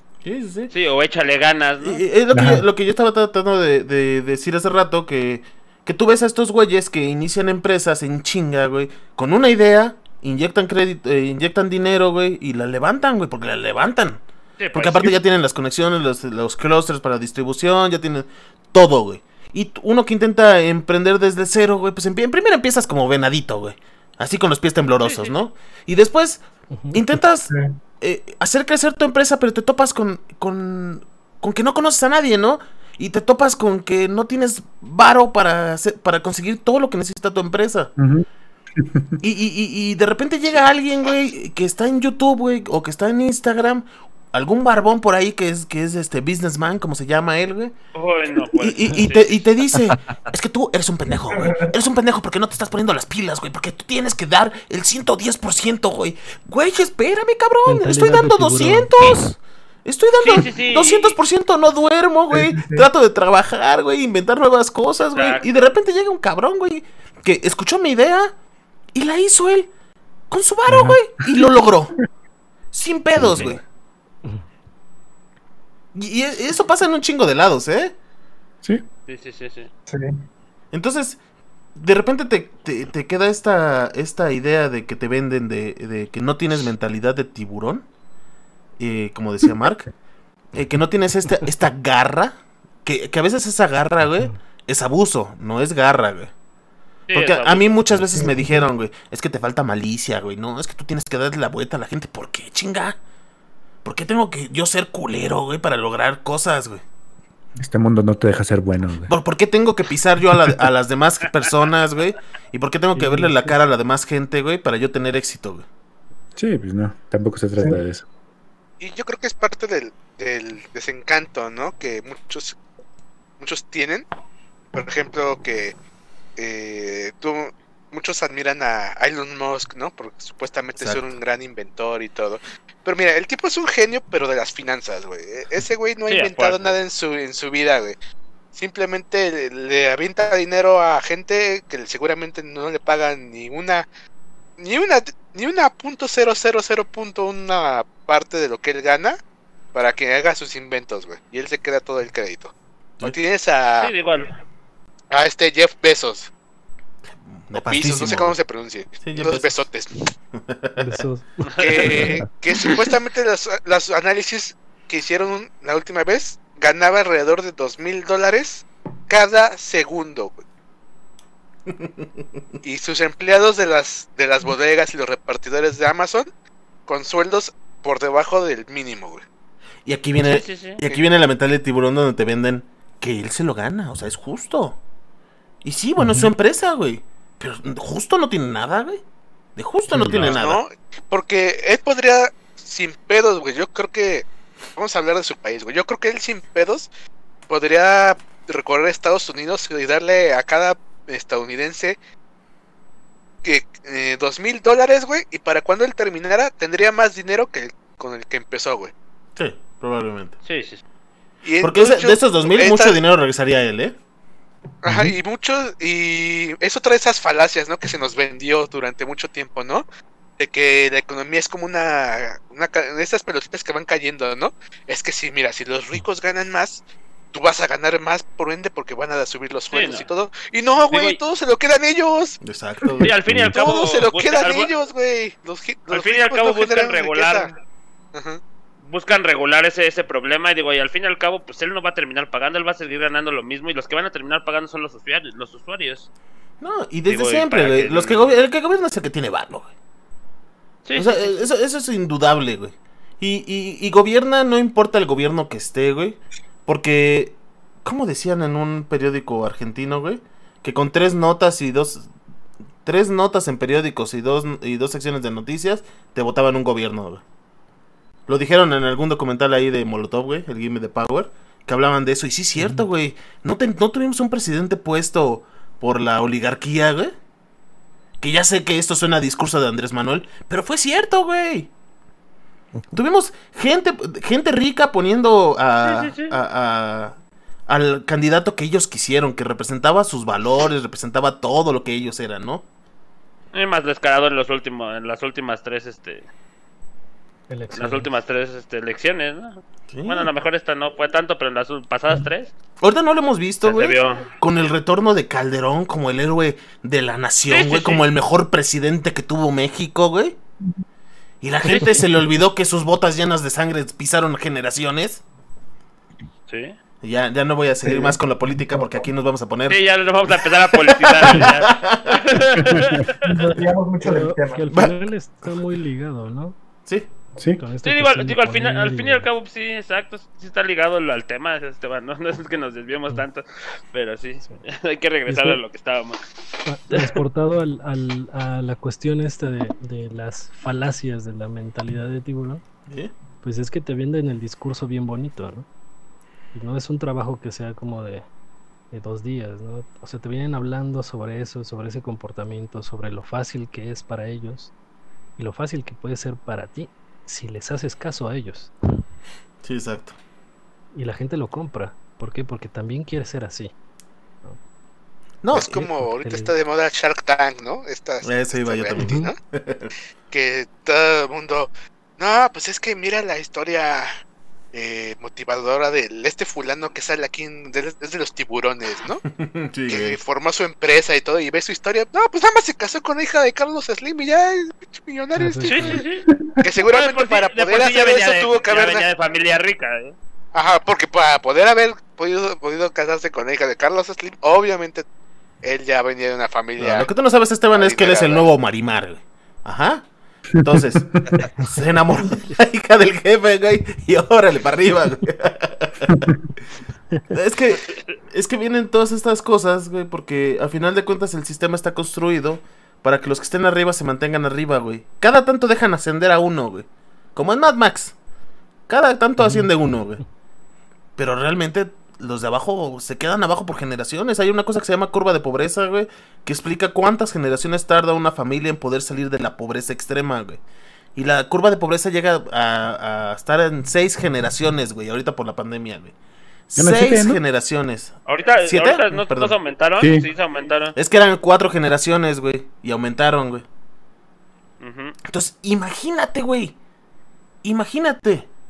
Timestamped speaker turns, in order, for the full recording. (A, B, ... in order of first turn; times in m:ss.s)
0:00.2-0:00.7 A
0:00.7-0:02.0 B
0:01.8-0:14.2 A
0:02.3-0:02.6 C
0:14.6-0:15.2 B
0:14.7-0:26.4 A
0:25.0-0:25.4 B
0:26.7-0:27.0 D
0:26.9-0:37.9 A
0:27.5-0:27.8 E
0:38.0-0:39.2 C
0:39.2-0:47.8 A
0:47.9-0:49.5 B
0:48.4-1:08.3 A
0:51.3-0:51.7 E
0:57.7-0:58.9 D
1:00.2-1:01.2 B
1:02.3-1:02.9 E
1:05.1-1:05.7 B
1:09.0-1:09.7 A
1:10.3-1:11.9 A
1:10.7-1:11.5 C
1:12.7-1:13.6 A
1:13.2-1:13.6 C
1:16.0-1:17.9 A
1:19.1-1:19.7 B
1:20.7-1:21.2 A
1:21.8-1:27.9 A
1:28.8-1:29.9 A
1:30.5-1:36.3 A
1:37.1-1:37.9 B
1:37.1-1:43.0 A
1:38.2-1:38.6 E
1:43.8-1:46.8 A
1:47.6-1:49.1 C
1:49.1-1:55.6 A
1:53.0-1:53.6 D
1:56.4-1:58.1 C
1:58.8-2:02.6 F
2:03.4-2:04.1 F
2:04.7-2:05.8 F
2:06.4-2:18.0 F
2:10.8-2:11.1 A
2:16.1-2:16.8 B
2:18.5-2:23.9 F
2:24.6-2:29.2 F
2:29.7-2:33.9 F
2:33.8-2:34.3 B
2:35.1-2:36.3 F
2:37.4-2:38.4 A
2:37.5-2:40.0 F
2:39.0-2:39.6 A
2:40.4-2:40.8 A
2:40.8-2:42.2 D
2:41.5-2:42.1 B
2:41.6-2:50.4 F
2:52.6-2:56.3 F
2:56.9-2:59.2 F
2:59.8-3:04.8 A
3:00.2-3:01.0 B
3:05.6-3:09.0 A
3:06.0-3:06.3 D
3:09.6-3:10.6 A
3:10.1-3:10.4 B
3:10.2-3:16.9 F
3:17.5-3:22.0 F
3:23.4-3:28.9 F
3:29.4-3:30.4 A
3:30.4-3:30.8 B
3:31.4-3:33.0 F
3:31.6-3:34.0 A
3:34.8-3:39.8 F
3:40.4-3:52.4 F
3:49.7-3:50.1 B
3:50.9-3:51.2 B
3:52.4-3:53.4 A
3:53.0-3:54.7 B
3:53.3-3:53.5 C
3:53.5-3:57.5 F
3:55.9-3:57.5 B
3:58.1-3:58.4 F
3:58.8-4:06.1 B
4:06.6-4:09.7 A
4:07.1-4:08.3 B
4:10.8-4:11.4 B
4:11.0-4:22.1 A
4:22.8-4:27.2 A
4:28.3-4:37.1 A
4:38.2-4:41.7 A
4:42.9-4:47.2 A
4:45.8-4:46.4 B
4:47.7-4:52.6 A
4:53.5-4:56.3 B
4:57.5-4:58.1 D
4:57.7-5:02.5 B
4:59.9-5:00.3 A
5:02.8-5:10.4 A
5:03.6-5:04.3 B
5:07.5-5:08.0 B
5:11.4-5:15.2 A
5:11.7-5:12.0 B
5:16.5-5:16.8 B
5:17.0-5:22.2 A
5:17.8-5:19.0 E
5:19.7-5:23.3 B
5:23.3-5:24.6 E
5:24.0-5:26.6 D
5:24.7-5:25.0 A
5:27.4-5:27.6 C
5:27.6-5:29.3 D
5:27.8-5:36.2 B
5:35.3-5:35.6 D
5:36.7-5:42.6 D
5:43.4-5:45.7 D
5:46.6-5:48.3 D
5:48.9-5:54.7 D
5:55.4-5:58.7 D
5:59.6-6:00.2 A
6:00.9-6:03.7 D
6:05.4-6:05.8 A
6:05.5-6:09.4 F
6:05.5-6:06.5 D
6:08.2-6:09.9 A
6:09.0-6:09.3 D
6:10.3-6:14.1 F
6:14.7-6:19.2 F
6:19.3-6:20.2 A
6:19.9-6:26.0 F
6:25.4-6:26.0 D
6:25.6-6:26.3 B
6:26.6-6:29.1 F
6:26.8-6:30.2 B
6:30.5-6:35.0 F
6:35.6-6:37.1 F
6:36.8-6:40.0 A
6:37.7-6:38.5 F
6:40.6-6:46.3 A
6:46.1-6:46.3 C
6:47.3-6:58.1 A
6:58.9-7:00.2 A
7:01.2-7:10.6 A
7:11.2-7:16.1 A
7:16.7-7:19.6 A
7:16.8-7:17.4 C
7:18.3-7:21.0 B
7:20.0-7:20.2 C
7:21.0-7:23.6 A
7:24.8-7:25.2 B
7:25.3-7:26.8 A
7:27.6-7:28.5 A